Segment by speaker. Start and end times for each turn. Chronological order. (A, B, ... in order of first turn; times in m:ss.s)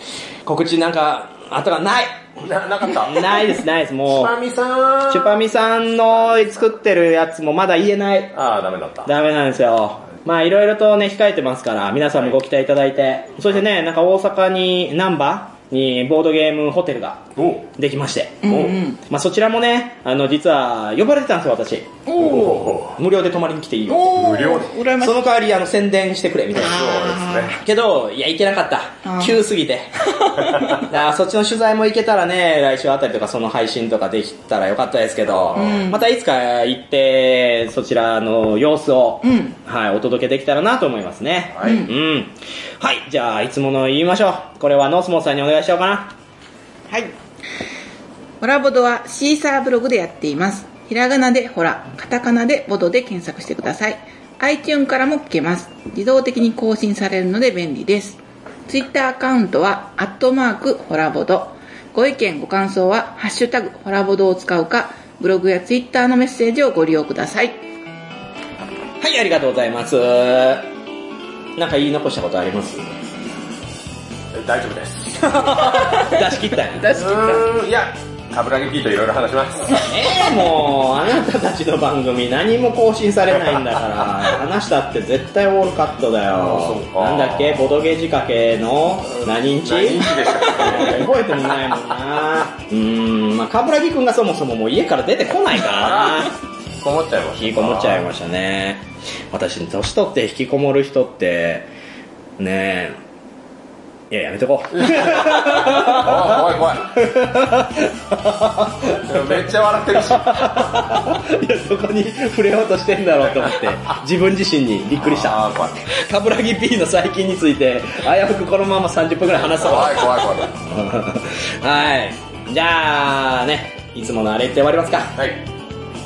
0:00.4-0:02.4 A
0:02.4-0:03.6 B
0:02.9-0:04.3 A
0:04.1-0:05.4 B
0:05.1-0:08.3 A
0:08.3-0:09.1 B
0:09.0-0:21.9 A
0:17.4-0:17.6 B
0:18.4-0:19.0 C
0:18.5-0:18.8 B
0:22.0-0:22.8 C
0:22.2-0:23.0 B
0:22.9-0:24.4 A
0:23.9-0:25.3 C
0:24.1-0:24.7 B
0:25.0-0:46.1 A
0:26.6-0:27.6 B
0:26.8-0:27.5 C
0:29.0-0:29.4 C
0:30.2-0:30.8 C
0:35.2-0:35.9 B
0:35.6-0:36.0 C
0:39.2-0:39.6 C
0:41.5-0:41.9 B
0:41.6-0:41.9 C
0:46.9-0:47.1 C
0:48.4-1:07.6 C
1:09.0-1:10.7 A
1:11.6-1:12.9 A
1:14.3-1:15.3 B
1:15.2-1:17.1 A
1:15.5-1:17.4 C
1:16.9-1:19.9 B
1:19.8-1:36.3 A
1:26.3-1:27.7 B
1:29.1-1:31.8 B
1:35.7-1:38.0 B
1:37.4-1:41.7 A
1:42.4-1:43.0 A
1:44.1-2:05.2 A
1:44.8-1:46.9 B
1:49.0-1:51.0 B
1:53.2-1:53.7 B
1:55.0-1:55.8 B
1:59.4-2:00.6 B
2:05.2-2:05.4 B